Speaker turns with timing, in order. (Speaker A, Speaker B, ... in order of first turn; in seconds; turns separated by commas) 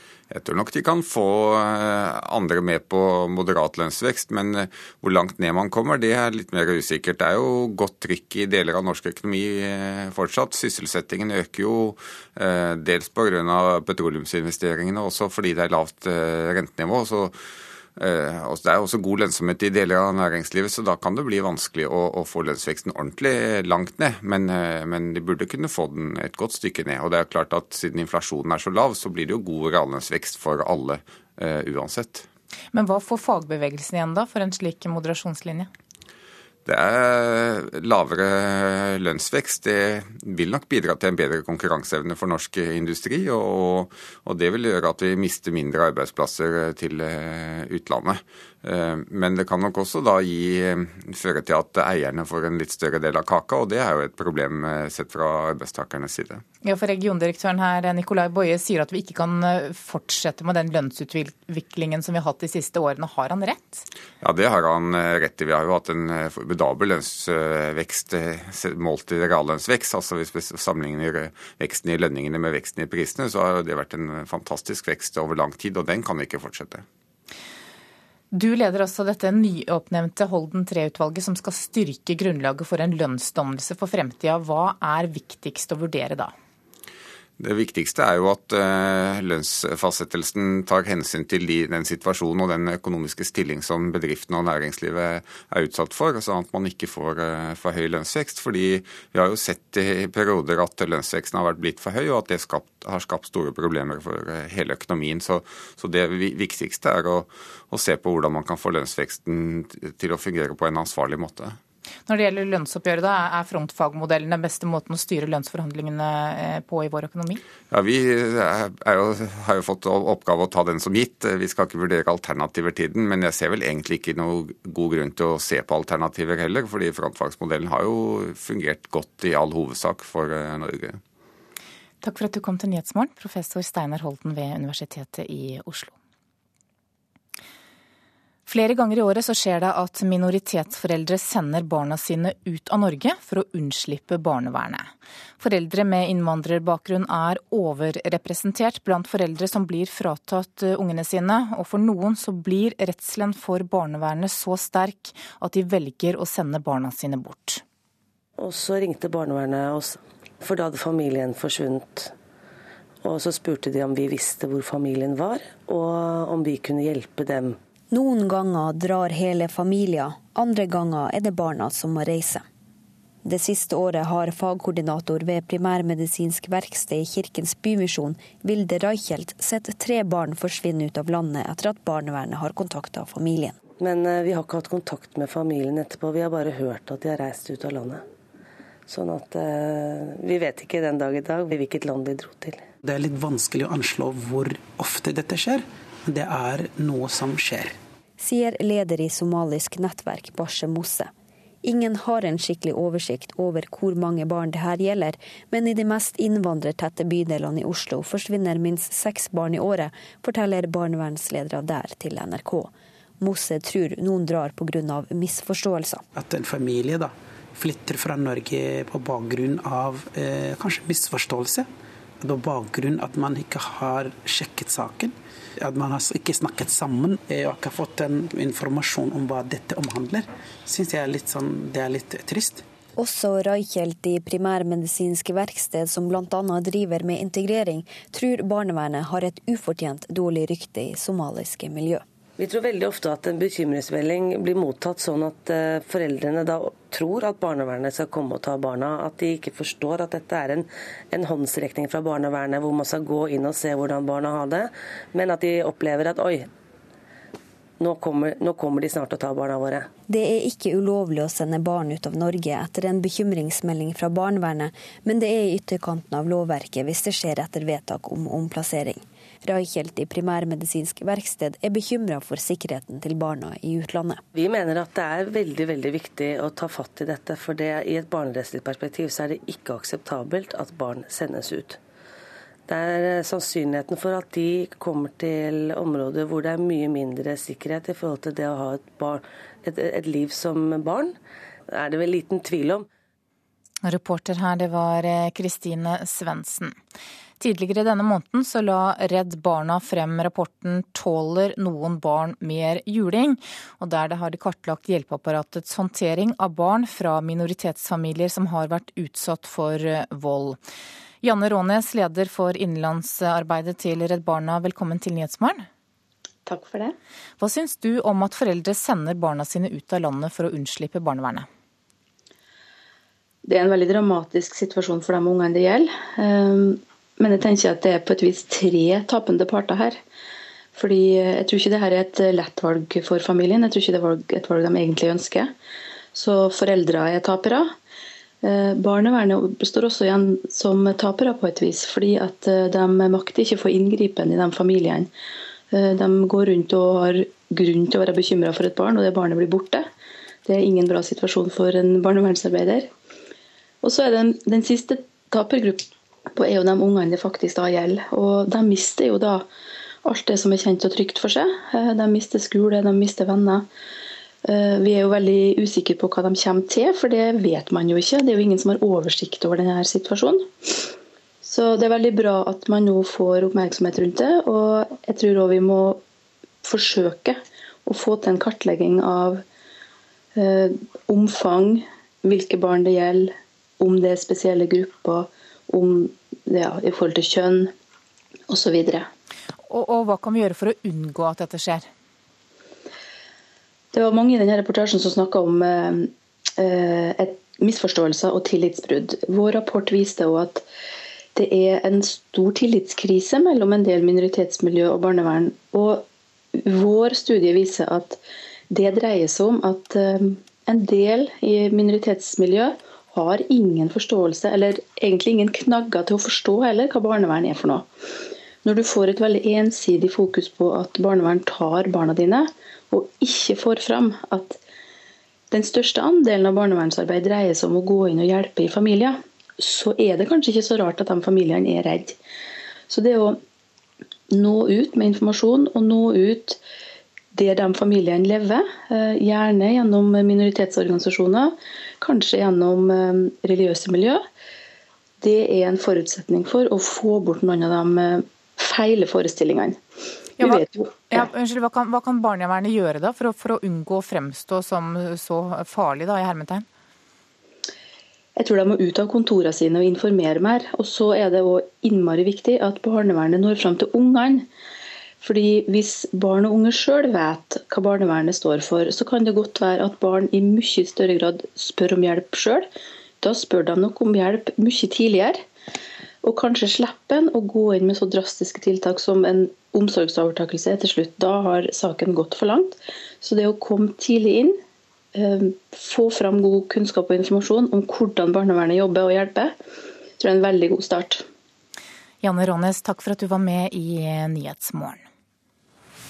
Speaker A: 0.3-17.4, Speaker A: 18.0-32.2, Speaker B: 32.7-35.7, Speaker A: 36.6-56.4, Speaker B: 56.6-63.9, Speaker A: 64.2-76.8, Speaker B: 78.3-86.3, Speaker A: 87.4-111.6, Speaker B: 112.1-117.4, Speaker A: 117.7-131.0, Speaker B: 132.0-135.9, Speaker B: 138.4-157.6, Speaker C: 158.4-162.1, Speaker C: 163.0-167.5, Speaker D: 167.9-172.4, Speaker D: 173.2-183.6, Speaker C: 183.8-188.0, Speaker C: 188.9-192.6, Speaker E: 193.0-193.3, Speaker E: 194.3-195.6, Speaker E: 196.1-196.9, Speaker D: 198.2-201.1, Speaker D: 201.6-216.0, Speaker E: 216.2-220.0, Speaker E: 220.6-221.6, Speaker E: 222.2-225.1, Speaker E: 225.7-232.6, Speaker D: 233.0-242.0, Speaker C: 242.4-256.5, Speaker C: 257.8-259.9, Speaker D: 260.1-274.2, Speaker C: 274.4-281.8, Speaker C: 282.7-291.1, Speaker C: 291.7-292.9, Speaker B: 293.8-296.7, Speaker B: 297.4-310.6, Speaker B: 311.2-315.6, Speaker F: 316.4-316.9, Speaker B: 317.4-321.5, Speaker F: 323.4-330.0, Speaker F: 330.7-335.5, Speaker F: 336.1-337.7, Speaker F: 338.4-345.1, Speaker F: 345.7-349.9, Speaker F: 350.4-352.9, Speaker F: 353.8-359.4, Speaker F: 360.0-363.6, Speaker F: 364.4-370.5, Speaker F: 371.4-376.0, Speaker F: 376.6-379.4, Speaker F: 380.4-387.7, Speaker F: 388.5-389.1, Speaker B: 389.7-391.9, Speaker F: 393.9-400.6, Speaker F: 401.3-406.1, Speaker F: 406.6-408.2, Speaker F: 408.7-417.9, Speaker F: 418.6-424.6, Speaker F: 425.5-432.2, Speaker F: 432.9-433.4, Speaker F: 434.3-436.6, Speaker F: 437.3-444.2, Speaker F: 445.2-449.8, Speaker F: 450.4-451.2, Speaker B: 450.4-456.6, Speaker F: 458.4-464.4, Speaker F: 465.2-472.7, Speaker F: 473.2-475.4, Speaker F: 476.2-484.6, Speaker F: 485.1-489.6, Speaker F: 490.2-491.2, Speaker B: 492.2-495.0